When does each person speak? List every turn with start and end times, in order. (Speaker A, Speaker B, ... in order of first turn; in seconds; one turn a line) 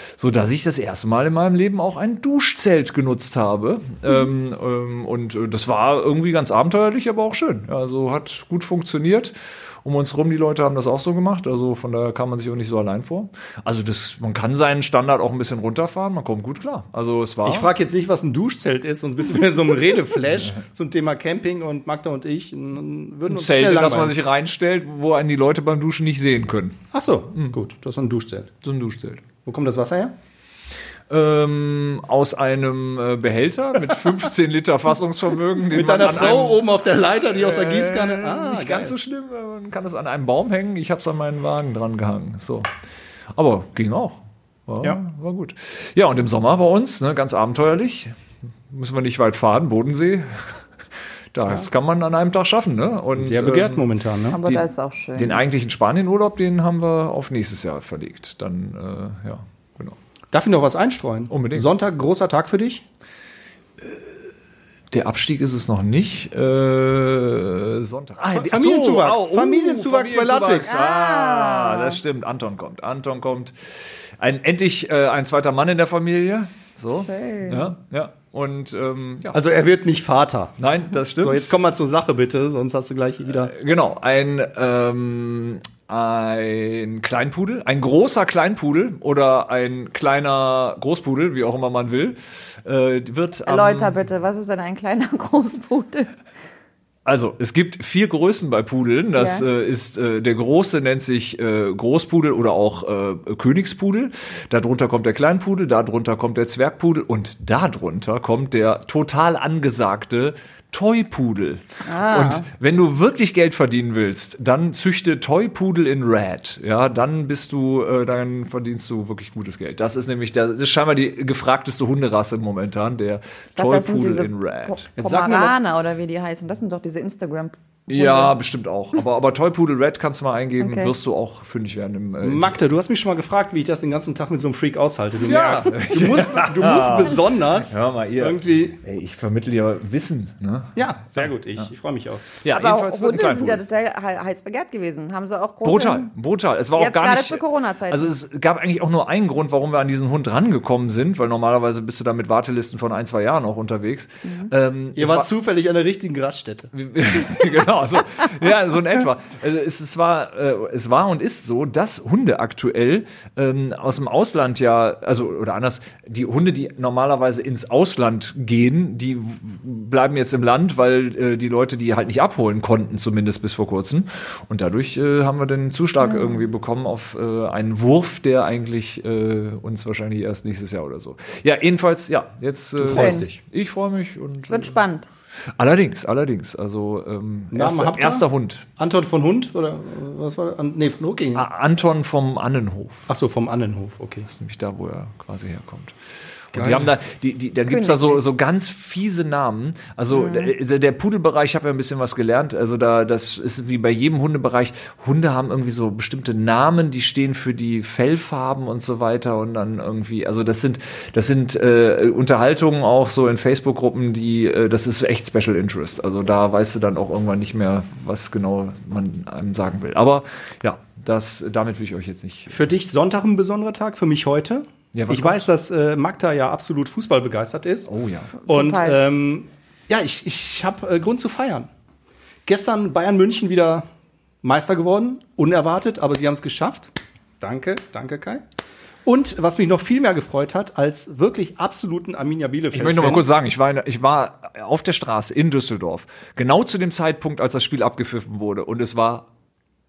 Speaker A: 0.2-17.7
Speaker B: 17.4-24.1
Speaker A: 23.3-26.8
Speaker B: 26.9-28.5
Speaker A: 28.6-29.2
Speaker B: 29.4-30.1
Speaker A: 31.1-36.6
Speaker B: 35.7-38.9
Speaker A: 37.3-42.7
Speaker A: 43.3-48.1
Speaker A: 48.7-50.6
Speaker A: 51.3-53.8
Speaker B: 53.1-54.4
Speaker C: 54.3-55.4
Speaker A: 55.1-60.0
Speaker B: 60.3-62.8
Speaker A: 61.3-61.7
Speaker A: 64.9-73.5
Speaker B: 68.3-70.8
Speaker C: 70.7-72.0
Speaker A: 74.2-79.3
Speaker C: 77.0-77.7
Speaker B: 79.3-80.5
Speaker A: 80.6-81.5
Speaker B: 81.2-83.5
Speaker A: 83.4-93.9
Speaker C: 93.5-96.1
Speaker A: 97.0-124.9
Speaker C: 99.2-99.5
Speaker C: 111.8-112.4
Speaker C: 123.5-128.3
Speaker B: 125.0-125.5
Speaker A: 127.9-132.6
Speaker C: 130.6-130.9
Speaker B: 132.2-138.8
Speaker A: 135.2-141.3
Speaker B: 140.8-142.2
Speaker A: 142.4-143.6
Speaker C: 142.5-146.1
Speaker A: 145.6-155.3
Speaker C: 146.8-148.1
Speaker C: 154.2-154.5
Speaker B: 154.9-156.7
Speaker A: 156.7-184.8
Speaker C: 176.0-176.4
Speaker B: 182.8-183.4
Speaker C: 182.9-183.2
Speaker C: 184.5-185.1
Speaker A: 185.6-188.7
Speaker B: 187.5-191.4
Speaker A: 191.3-193.1
Speaker B: 193.1-194.3
Speaker A: 194.3-195.9
Speaker A: 196.5-222.7
Speaker B: 196.5-196.9
Speaker C: 197.7-198.2
Speaker C: 200.1-200.5
Speaker B: 222.5-227.9
Speaker A: 224.9-225.5
Speaker A: 227.9-228.3
Speaker C: 228.4-229.0
Speaker B: 228.5-231.7
Speaker B: 232.4-233.9
Speaker B: 234.4-238.4
Speaker B: 239.0-243.3
Speaker A: 242.7-249.3